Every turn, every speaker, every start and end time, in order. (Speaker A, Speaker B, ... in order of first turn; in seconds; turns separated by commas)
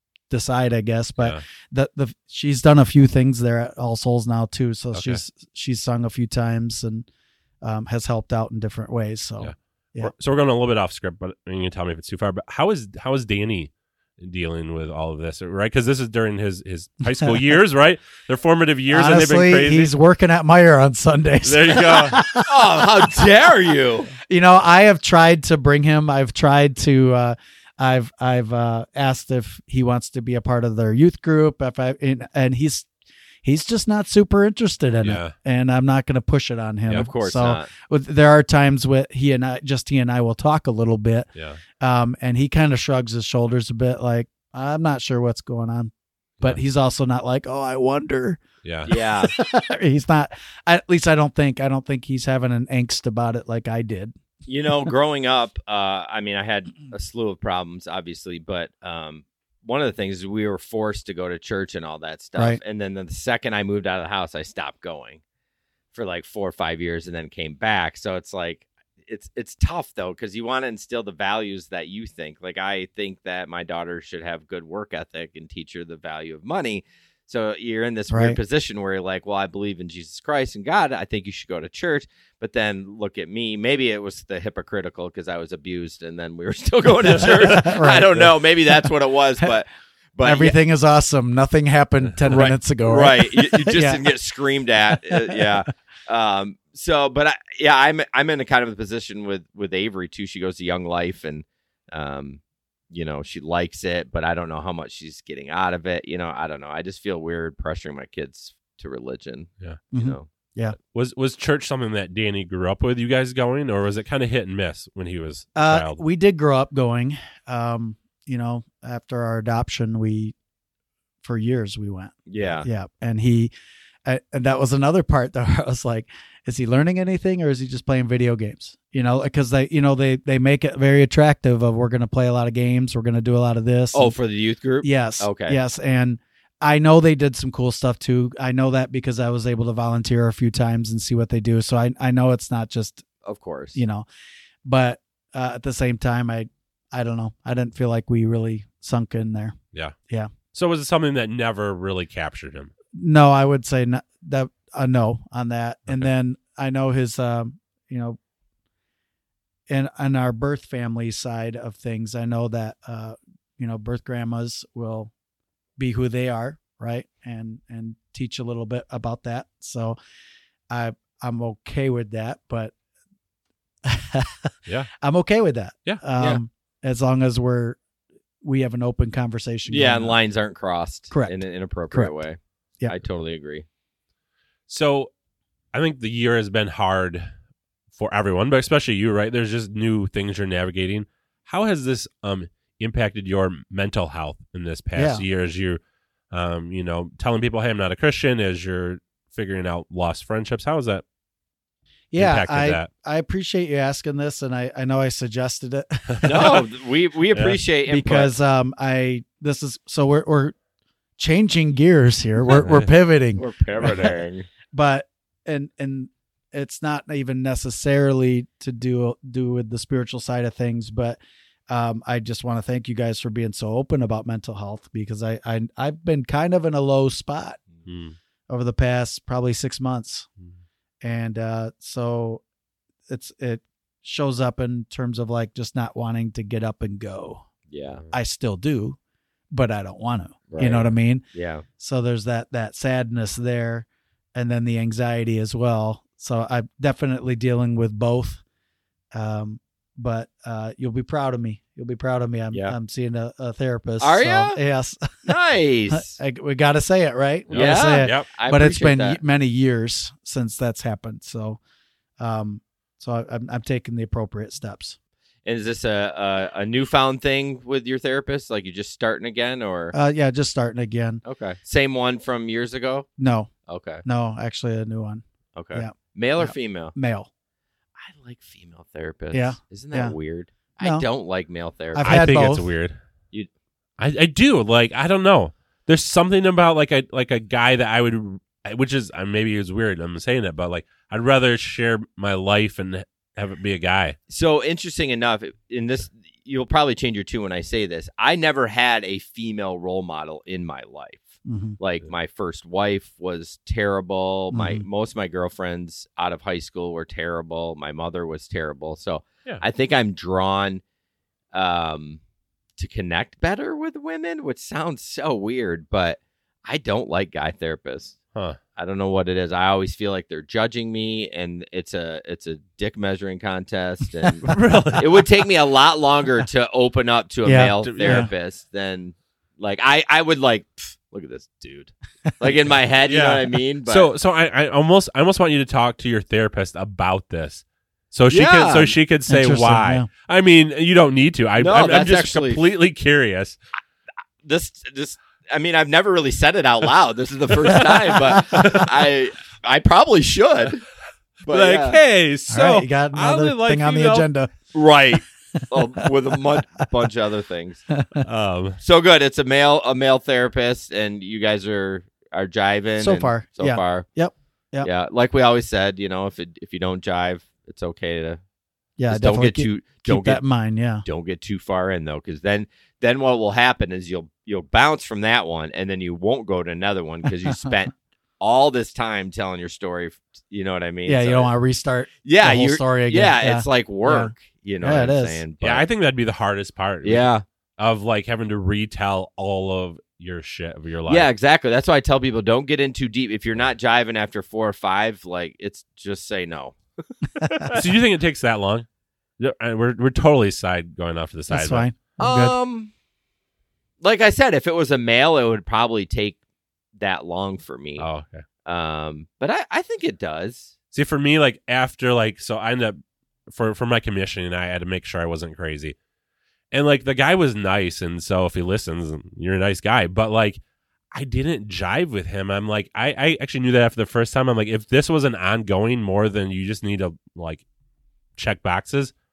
Speaker A: 0.3-7.1, Speaker B: 4.9-5.2, Speaker A: 7.6-10.1, Speaker B: 9.4-19.9, Speaker A: 18.9-23.2, Speaker B: 21.4-22.2, Speaker C: 22.4-24.1, Speaker A: 24.2-32.9, Speaker A: 33.4-41.3, Speaker B: 35.0-35.3, Speaker C: 36.9-37.7, Speaker B: 41.3-41.6, Speaker A: 41.8-54.1, Speaker B: 48.6-48.9, Speaker C: 48.9-49.3, Speaker C: 54.5-65.2, Speaker C: 65.9-90.5, Speaker A: 78.1-78.4, Speaker A: 87.0-88.9, Speaker A: 90.2-94.0, Speaker C: 92.3-110.3, Speaker A: 109.9-110.8, Speaker B: 110.9-116.0, Speaker A: 115.5-120.3, Speaker A: 121.2-123.5, Speaker C: 122.3-122.7, Speaker A: 124.0-134.1, Speaker C: 133.9-135.6, Speaker A: 134.8-143.1, Speaker C: 143.2-143.8, Speaker A: 143.7-144.1, Speaker A: 144.6-149.6, Speaker B: 150.5-152.7, Speaker A: 152.9-158.2, Speaker A: 159.7-165.1, Speaker A: 165.8-170.0, Speaker A: 170.7-172.7, Speaker A: 173.8-177.8, Speaker A: 178.4-180.2, Speaker C: 179.7-183.6, Speaker A: 181.1-181.4, Speaker B: 184.7-185.1, Speaker B: 185.7-187.3, Speaker B: 187.9-195.8, Speaker A: 194.9-195.2, Speaker B: 196.3-201.0, Speaker A: 202.1-206.6, Speaker B: 202.1-202.9, Speaker C: 206.2-208.3, Speaker A: 207.9-210.5, Speaker A: 211.2-214.1, Speaker C: 213.4-214.5, Speaker A: 214.7-227.6, Speaker B: 227.8-228.2, Speaker A: 228.5-230.3, Speaker A: 231.0-232.4, Speaker A: 233.1-237.5, Speaker C: 237.7-238.0, Speaker A: 238.1-239.0, Speaker A: 239.5-241.2, Speaker C: 240.5-241.6, Speaker A: 241.8-248.4, Speaker A: 249.1-255.3, Speaker C: 254.0-254.6, Speaker C: 255.2-256.1, Speaker A: 255.9-261.6, Speaker B: 257.5-258.3, Speaker C: 257.5-259.2, Speaker A: 262.2-265.0, Speaker C: 265.4-269.9, Speaker A: 269.9-271.2, Speaker C: 271.2-273.1, Speaker A: 273.2-273.5, Speaker C: 273.7-274.0, Speaker A: 274.0-277.3, Speaker C: 275.5-276.9, Speaker C: 278.0-282.1, Speaker A: 279.3-280.1, Speaker A: 280.8-281.1, Speaker A: 281.9-282.7, Speaker B: 282.0-283.0, Speaker B: 284.0-294.1, Speaker C: 294.3-310.8, Speaker A: 301.4-301.8, Speaker A: 304.5-304.8, Speaker C: 311.5-312.2, Speaker C: 312.8-318.1, Speaker C: 318.8-334.1, Speaker B: 324.4-325.3, Speaker A: 327.4-328.3, Speaker B: 327.8-328.3, Speaker B: 333.1-343.6, Speaker C: 338.3-338.9, Speaker A: 339.3-340.1, Speaker C: 341.6-342.6, Speaker C: 344.4-350.8, Speaker B: 348.4-348.9, Speaker C: 351.4-352.0, Speaker B: 351.5-354.3, Speaker A: 352.5-354.5, Speaker C: 354.7-357.8, Speaker A: 357.9-358.2, Speaker B: 358.2-358.8, Speaker C: 358.8-364.1, Speaker A: 363.0-364.9, Speaker C: 364.8-368.4, Speaker A: 369.0-371.0, Speaker C: 369.1-370.4, Speaker C: 371.0-381.5, Speaker A: 377.5-377.7, Speaker A: 381.1-385.4, Speaker C: 382.2-385.8, Speaker B: 385.6-391.3, Speaker C: 387.0-387.4, Speaker C: 391.1-397.7, Speaker A: 397.4-397.7, Speaker B: 397.7-398.9, Speaker B: 399.4-401.9, Speaker A: 401.5-402.5, Speaker C: 402.2-402.9, Speaker C: 404.0-406.4, Speaker C: 407.0-408.1, Speaker B: 408.0-408.4, Speaker C: 408.6-410.7, Speaker B: 410.9-415.9, Speaker B: 416.7-420.6, Speaker B: 421.1-427.6, Speaker B: 428.4-429.1